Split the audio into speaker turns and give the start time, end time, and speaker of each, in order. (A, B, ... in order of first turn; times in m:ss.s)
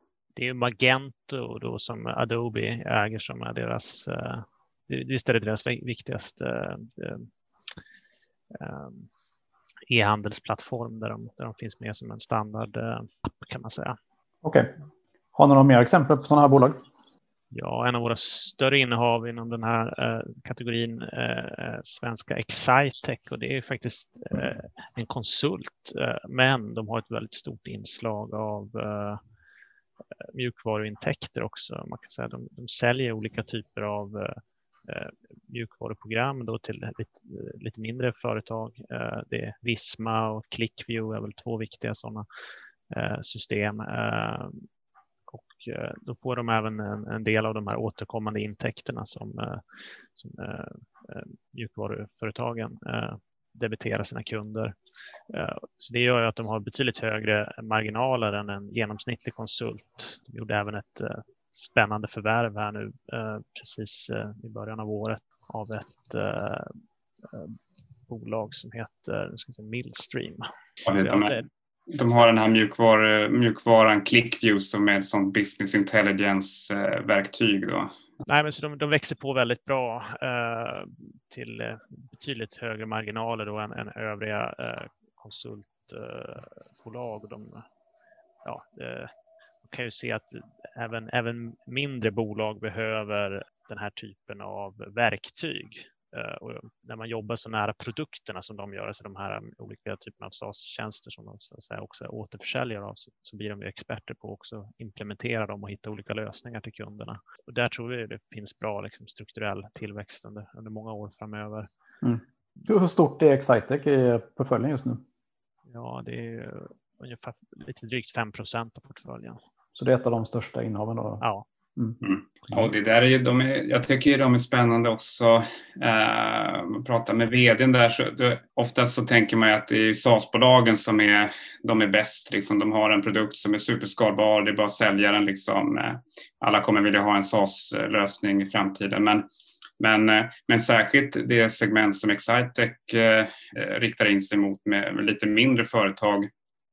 0:00.4-0:07.3 A
0:08.5-0:09.1 A
0:09.9-0:14.0 A
0:14.4-0:14.7 B
0:15.4-0:16.8 B
0:17.5-0:29.2 A
0:30.3-0:42.2 A
0:42.9-0:44.6 A
0:45.3-0:49.6 A
0:50.2-0:54.8 A
0:55.3-1:06.7 A
1:07.3-1:07.6 A
1:08.1-1:11.5 A
1:10.8-1:11.3 C
1:11.9-1:17.9 C
1:18.2-1:27.6 A
1:28.4-1:29.1 A
1:29.6-1:51.7 A
1:52.0-1:55.0 B
1:55.7-1:59.4 A
1:59.8-2:01.2 B
2:01.2-2:01.5 A
2:02.0-2:19.3 C
2:19.8-2:26.3 C